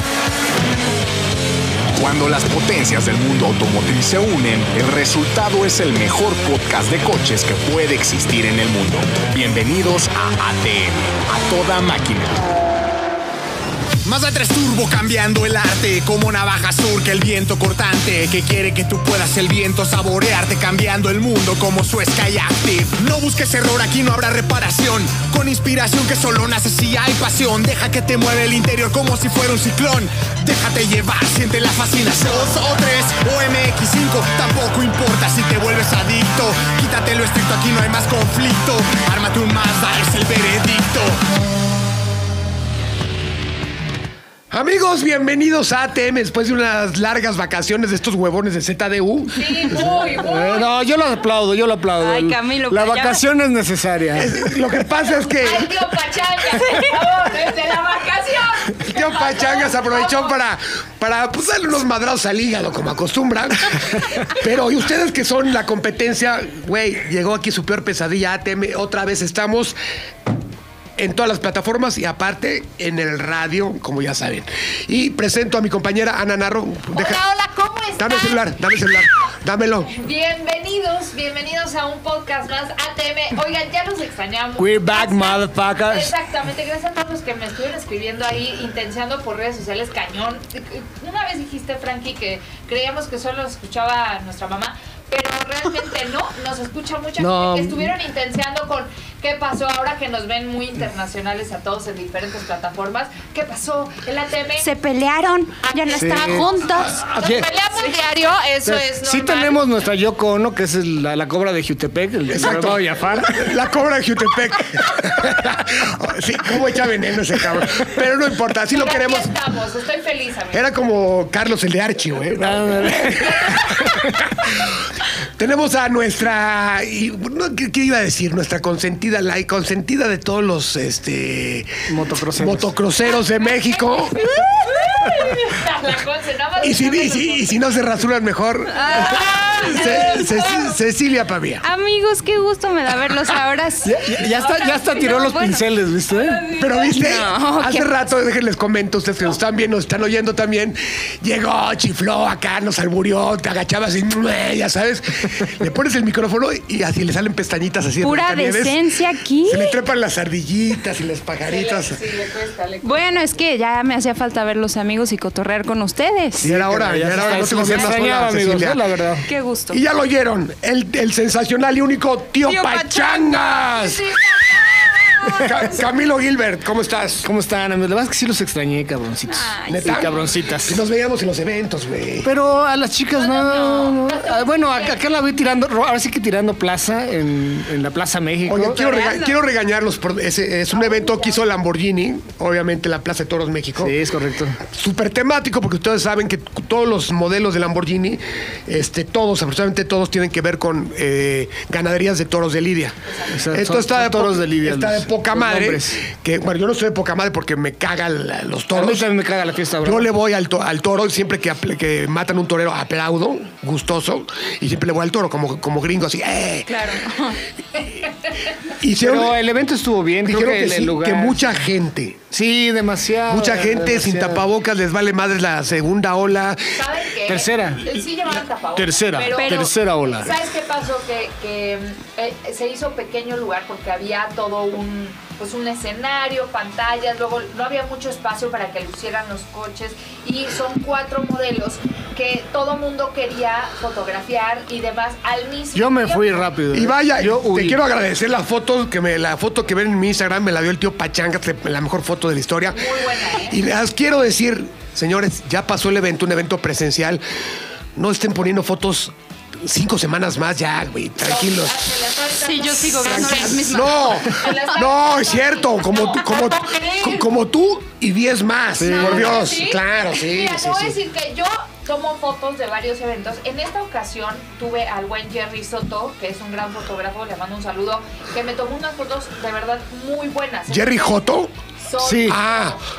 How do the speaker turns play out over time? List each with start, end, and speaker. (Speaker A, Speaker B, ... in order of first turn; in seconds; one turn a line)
Speaker A: 1.9-12.4
Speaker A: 14.0-41.2
Speaker B: 44.5-49.9
Speaker C: 49.3-50.7
Speaker D: 50.1-54.3
Speaker E: 52.0-53.2
Speaker B: 54.1-55.7
Speaker C: 55.4-60.4
Speaker B: 58.8-69.8
Speaker B: 71.0-77.2
Speaker C: 76.9-78.7
Speaker B: 78.0-79.9
Speaker C: 79.9-104.7
Speaker D: 84.6-86.1
Speaker D: 97.2-97.9
Speaker E: 104.6-107.1
Speaker C: 105.6-109.6
Speaker D: 105.9-107.5
Speaker D: 108.6-113.6
Speaker B: 112.3-119.3
Speaker C: 118.7-120.7
Speaker B: 120.5-124.7
Speaker D: 122.4-123.3
Speaker C: 123.2-123.9
Speaker B: 125.4-131.7
Speaker D: 131.9-132.8
Speaker B: 132.3-134.1
Speaker C: 133.4-137.6
Speaker B: 136.6-141.6
Speaker E: 138.7-140.5
Speaker C: 138.8-140.7
Speaker E: 141.6-145.7
Speaker D: 143.8-146.4
Speaker C: 144.5-145.1
Speaker C: 146.1-146.9
Speaker B: 146.6-158.8
Speaker E: 146.6-148.1
Speaker E: 158.0-159.8
Speaker B: 159.4-162.0
Speaker C: 161.4-163.1
Speaker E: 162.8-166.5
Speaker B: 166.4-168.8
Speaker D: 166.4-169.3
Speaker E: 167.1-167.9
Speaker E: 169.2-169.8
Speaker B: 169.7-174.1
Speaker E: 172.4-175.6
Speaker B: 175.3-177.3
Speaker D: 177.2-180.8
Speaker E: 179.3-180.1
Speaker B: 179.7-180.1
Speaker B: 180.6-182.3
Speaker D: 182.2-188.8
Speaker C: 183.2-185.0
Speaker B: 188.4-194.0
Speaker E: 188.8-189.4
Speaker C: 190.7-191.4
Speaker D: 193.8-194.6
Speaker B: 194.7-209.1
Speaker D: 203.2-206.1
Speaker D: 208.7-210.1
Speaker B: 209.8-217.1
Speaker E: 216.7-217.4
Speaker B: 218.7-219.4
Speaker D: 219.0-221.6
Speaker B: 220.2-222.2
Speaker D: 222.3-224.4
Speaker B: 223.3-226.8
Speaker C: 226.7-246.5
Speaker D: 227.2-227.9
Speaker D: 228.8-230.3
Speaker E: 229.3-229.7
Speaker D: 245.7-247.8
Speaker B: 246.7-257.2
Speaker C: 252.7-253.6
Speaker B: 258.0-259.1
Speaker B: 259.6-261.8
Speaker C: 261.2-267.2
Speaker E: 262.4-264.8
Speaker B: 263.1-270.9
Speaker D: 268.8-269.4
Speaker C: 268.8-281.2
Speaker B: 280.7-281.5
Speaker C: 281.8-282.8
Speaker D: 282.0-282.4
Speaker B: 282.2-282.8